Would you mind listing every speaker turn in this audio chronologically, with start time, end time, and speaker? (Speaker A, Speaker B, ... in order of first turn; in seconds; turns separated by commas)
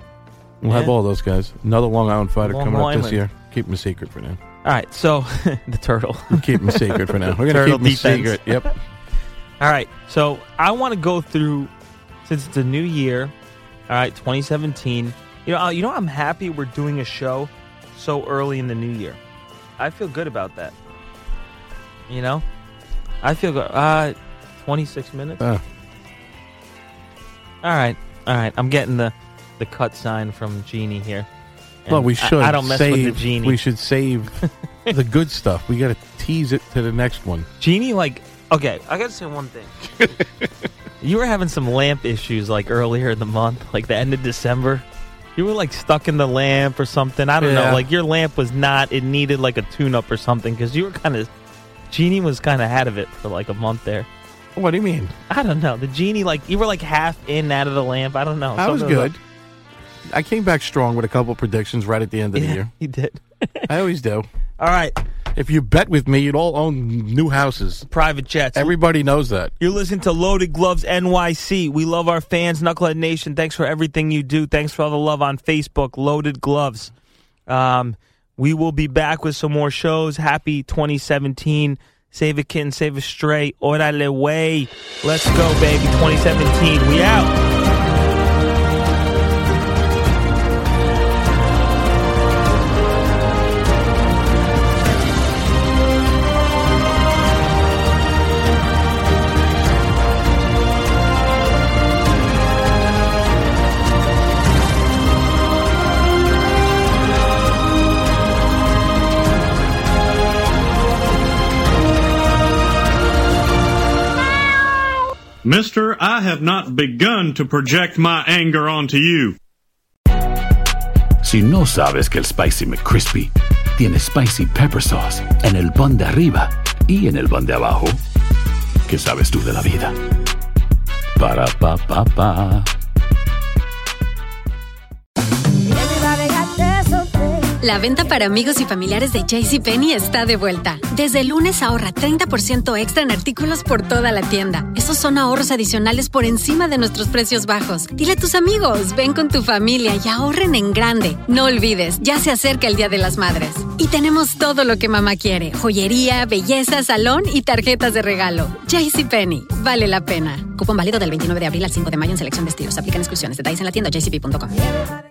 Speaker A: 0.6-4.4, Speaker B: 0.7-0.9, Speaker B: 2.4-3.2, Speaker B: 4.6-8.8, Speaker A: 6.3-8.7, Speaker B: 9.6-11.7, Speaker B: 12.2-13.3, Speaker B: 13.9-19.2, Speaker B: 19.8-20.8, Speaker B: 22.1-22.4, Speaker B: 23.2-25.4, Speaker B: 27.6-31.3, Speaker B: 31.9-33.6, Speaker A: 31.9-37.5, Speaker B: 37.6-39.8, Speaker A: 40.0-40.5, Speaker B: 41.0-44.8, Speaker B: 45.4-51.3, Speaker A: 47.4-47.9, Speaker B: 51.9-54.1, Speaker A: 54.5-55.1, Speaker B: 55.3-59.1, Speaker A: 58.6-59.2, Speaker A: 60.1-62.7, Speaker B: 62.4-63.7, Speaker A: 63.7-64.3, Speaker B: 64.6-65.0, Speaker A: 65.3-67.9, Speaker B: 67.9-68.8, Speaker A: 68.5-69.5, Speaker B: 69.6-76.9, Speaker B: 77.5-87.4, Speaker C: 115.4-119.4, Speaker D: 121.3-121.9, Speaker D: 123.8-125.2, Speaker D: 125.8-126.4, Speaker D: 129.6-129.9, Speaker D: 132.2-132.6, Speaker E: 137.6-164.6